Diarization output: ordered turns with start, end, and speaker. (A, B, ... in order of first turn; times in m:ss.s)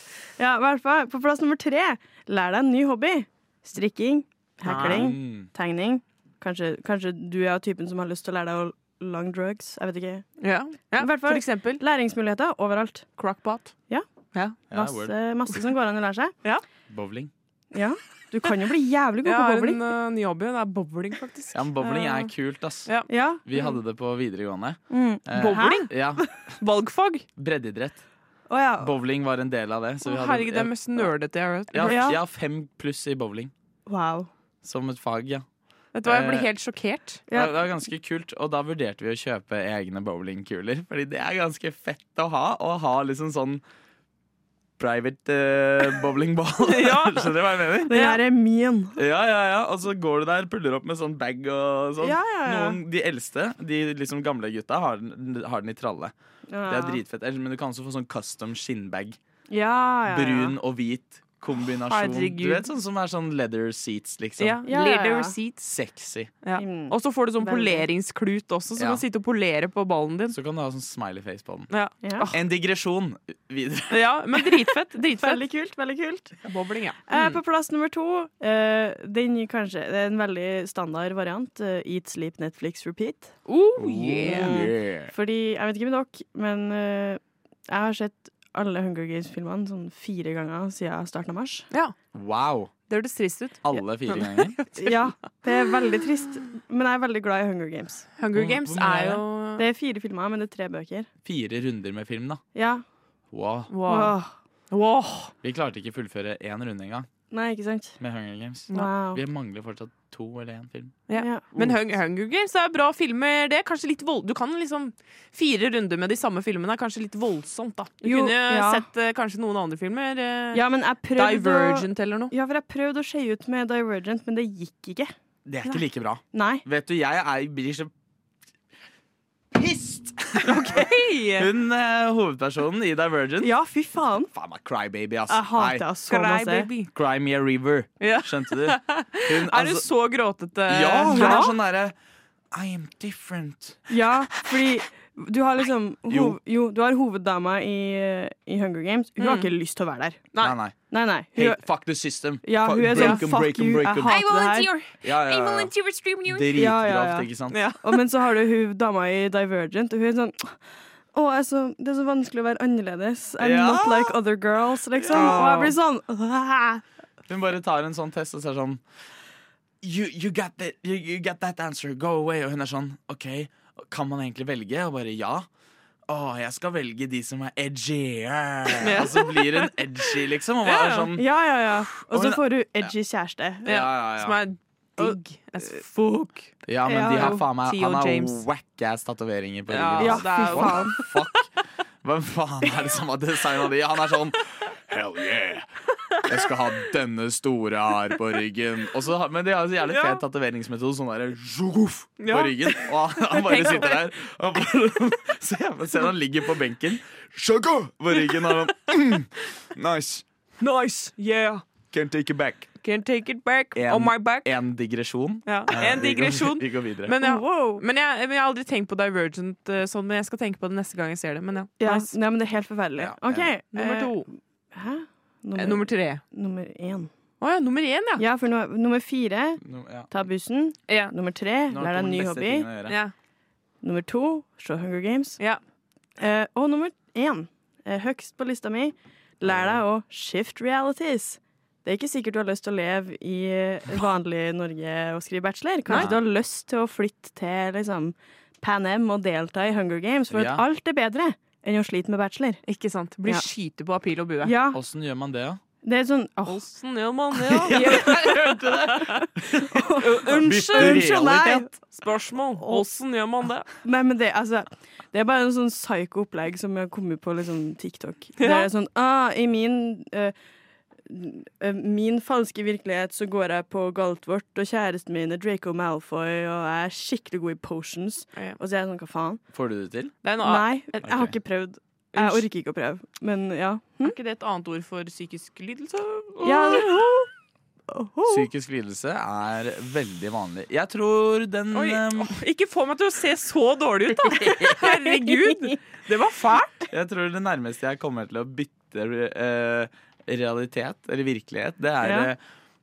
0:00.4-0:10.3 A
0:04.6-0:05.0 B
0:04.6-0:05.5 C
0:10.4-0:11.8 B
0:11.0-0:13.1 A
0:13.2-0:13.7 B
0:14.7-0:15.1 C
0:14.7-0:16.3 A
0:16.9-0:17.3 C
0:17.7-0:19.8 A
0:19.2-0:22.3 B
0:21.5-0:22.9 C
0:23.1-0:23.4 A
0:23.4-0:26.2 C
0:24.9-0:26.1 A
0:25.3-0:25.9 B
0:26.6-0:27.2 B
0:27.4-0:28.0 C
0:28.5-0:28.9 A
0:28.8-0:31.1 C
0:30.0-0:32.1 B
0:31.7-0:33.5 C
0:31.8-0:32.2 A
0:33.8-0:34.3 A
0:34.6-0:35.4 C
0:35.9-0:37.2 B
0:36.0-0:36.5 C
0:37.3-0:37.6 A
0:37.3-0:43.6 C
0:44.8-0:48.2 C
0:46.6-0:47.3 B
0:47.9-0:49.0 A
0:49.0-0:56.1 C
0:52.0-0:52.8 A
0:56.5-0:57.0 A
0:56.7-0:59.2 C
0:59.5-1:00.6 A
1:00.1-1:04.7 C
1:01.8-1:02.7 B
1:04.4-1:05.7 B
1:04.6-1:05.4 A
1:05.6-1:06.3 C
1:06.4-1:10.4 B
1:06.5-1:07.8 A
1:08.8-1:09.0 C
1:10.3-1:11.7 C
1:11.7-1:12.4 B
1:12.0-1:12.3 A
1:12.3-1:14.0 C
1:13.9-1:15.4 B
1:15.1-1:16.4 A
1:16.4-1:17.4 B
1:17.1-1:23.3 A
1:23.5-1:24.6 B
1:23.8-1:25.1 C
1:24.3-1:31.7 A
1:32.1-1:32.7 C
1:32.9-1:35.1 B
1:33.6-1:34.6 C
1:34.8-1:38.1 A
1:38.2-1:39.6 B
1:38.3-1:39.2 C
1:39.6-1:41.1 A
1:41.2-1:42.4 C
1:42.5-1:42.8 A
1:43.3-1:43.7 C
1:43.7-1:44.2 B
1:43.8-1:44.3 A
1:44.7-1:45.3 B
1:45.4-1:47.1 C
1:47.3-1:48.0 A
1:48.0-1:51.0 C
1:48.7-1:49.2 A
1:51.1-2:00.6 B
1:51.1-1:51.5 A
1:58.0-1:58.8 A
2:00.5-2:05.1 A
2:01.1-2:02.3 B
2:05.4-2:07.9 C
2:06.3-2:06.6 A
2:09.5-2:13.5 C
2:10.4-2:11.5 B
2:13.4-2:14.3 A
2:14.3-2:15.8 C
2:15.3-2:16.7 A
2:16.1-2:16.9 B
2:16.9-2:19.9 C
2:18.0-2:21.5 B
2:20.7-2:22.0 C
2:21.1-2:21.5 A
2:22.5-2:24.0 C
2:23.9-2:30.2 A
2:26.1-2:26.4 C
2:29.2-2:29.5 B
2:30.4-2:30.8 C
2:30.9-2:31.6 A
2:31.3-2:34.2 C
2:32.4-2:34.7 A
2:32.9-2:33.2 B
2:34.0-2:36.5 B
2:35.0-2:37.6 C
2:36.4-2:40.6 A
2:37.5-2:37.9 B
2:41.1-2:46.8 A
2:43.4-2:44.2 C
2:45.0-2:45.6 C
2:45.1-2:45.7 B
2:47.3-2:48.8 C
2:49.8-2:55.5 C
2:56.1-3:02.9 C
2:58.8-2:59.7 B
3:00.6-3:01.1 B
3:01.1-3:03.8 A
3:03.6-3:04.4 C
3:03.6-3:06.5 B
3:06.6-3:11.5 C
3:06.8-3:07.4 A
3:07.2-3:08.4 B
3:09.7-3:11.2 B
3:10.0-3:11.0 A
3:12.0-3:15.7 C
3:16.2-3:30.2 C
3:19.8-3:20.2 B
3:22.2-3:24.0 B
3:30.6-3:31.6 B
3:31.9-3:32.7 C
3:32.8-3:34.5 B
3:33.7-3:37.2 C
3:35.4-3:42.1 B
3:37.2-3:37.8 A
3:41.8-3:47.1 A
3:43.0-3:43.5 C
3:43.7-3:44.3 B
3:45.6-3:46.2 B
3:47.4-3:48.2 B
3:48.2-3:52.7 A
3:49.6-3:50.1 C
3:50.9-3:51.1 B
3:51.7-3:53.0 C
3:52.9-3:53.1 B
3:53.8-3:55.4 A
3:56.2-4:12.6 A
3:59.4-3:59.8 C
4:05.9-4:06.2 C
4:10.3-4:10.6 C
4:12.6-4:14.5 B
4:14.4-4:14.8 A
4:14.7-4:15.6 C
4:15.8-4:16.6 A
4:16.4-4:19.2 B
4:17.5-4:21.7 C
4:17.6-4:18.3 A
4:19.2-4:21.8 A
4:20.0-4:23.7 B
4:23.8-4:30.3 A
4:28.4-4:28.7 B
4:31.1-4:39.4 A
4:39.5-4:40.2 C
4:40.2-4:40.7 B
4:40.4-4:44.2 A
4:41.0-4:41.3 C
4:42.1-4:42.4 B
4:44.0-4:46.9 B
4:46.4-4:47.3 A
4:47.9-4:48.4 A
4:48.3-4:52.4 C
4:51.7-4:56.8 B
4:54.4-4:55.8 A
4:56.9-5:02.4 C
5:02.0-5:02.3 A